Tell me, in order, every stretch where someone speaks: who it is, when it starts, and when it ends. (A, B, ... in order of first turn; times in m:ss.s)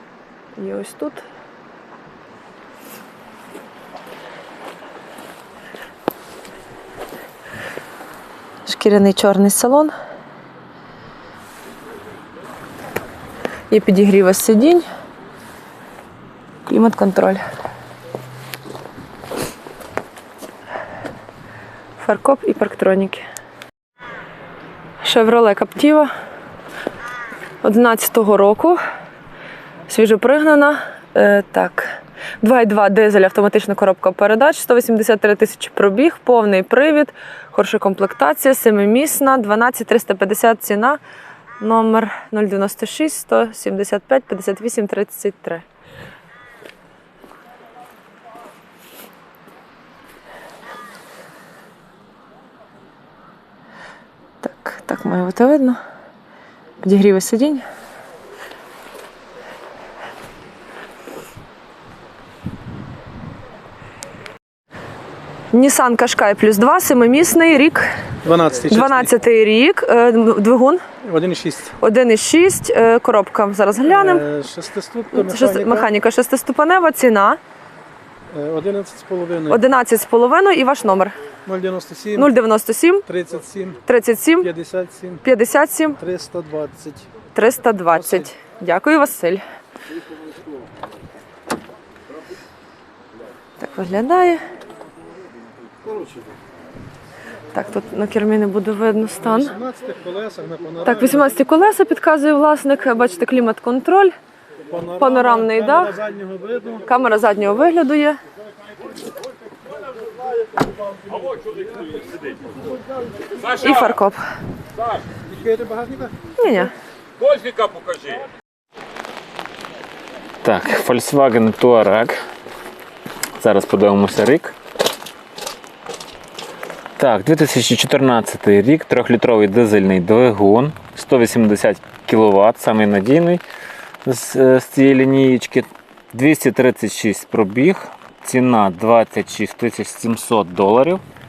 0:00.6-0:01.2 A
0:08.7-0:09.9 A
0:13.7-0:14.9 A
0:16.6-0:17.4 A
0:22.0-0:23.2 A
0:25.0-0:26.1 A
0:27.6-0:28.8 A
0:29.9-0:41.0 A
0:41.6-0:45.6 A
0:54.4-0:55.8 A
0:56.8-0:57.6 A
1:05.5-1:07.9 A
1:08.2-1:09.0 B
1:08.7-1:10.8 A
1:11.1-1:11.7 B
1:11.8-1:14.2 A
1:14.0-1:15.9 B
1:15.1-1:17.4 A
1:18.3-1:19.5 B
1:19.5-1:21.2 A
1:21.5-1:22.3 B
1:22.2-1:23.1 A
1:23.1-1:23.7 B
1:23.8-1:24.5 A
1:24.4-1:25.2 B
1:25.2-1:26.0 A
1:26.0-1:27.1 B
1:27.3-1:29.4 A
1:28.0-1:28.2 B
1:33.6-1:34.4 A
1:37.5-1:39.6 A
1:39.5-1:41.2 B
1:40.8-1:44.1 A
1:44.7-1:46.8 B
1:45.0-1:46.0 A
1:46.8-1:48.2 A
1:53.4-1:54.2 A
1:55.3-1:56.2 B
1:56.4-1:56.7 A
2:00.4-2:02.1 C
2:03.4-2:04.5 C
2:07.0-2:13.4 C
2:14.0-2:21.0 C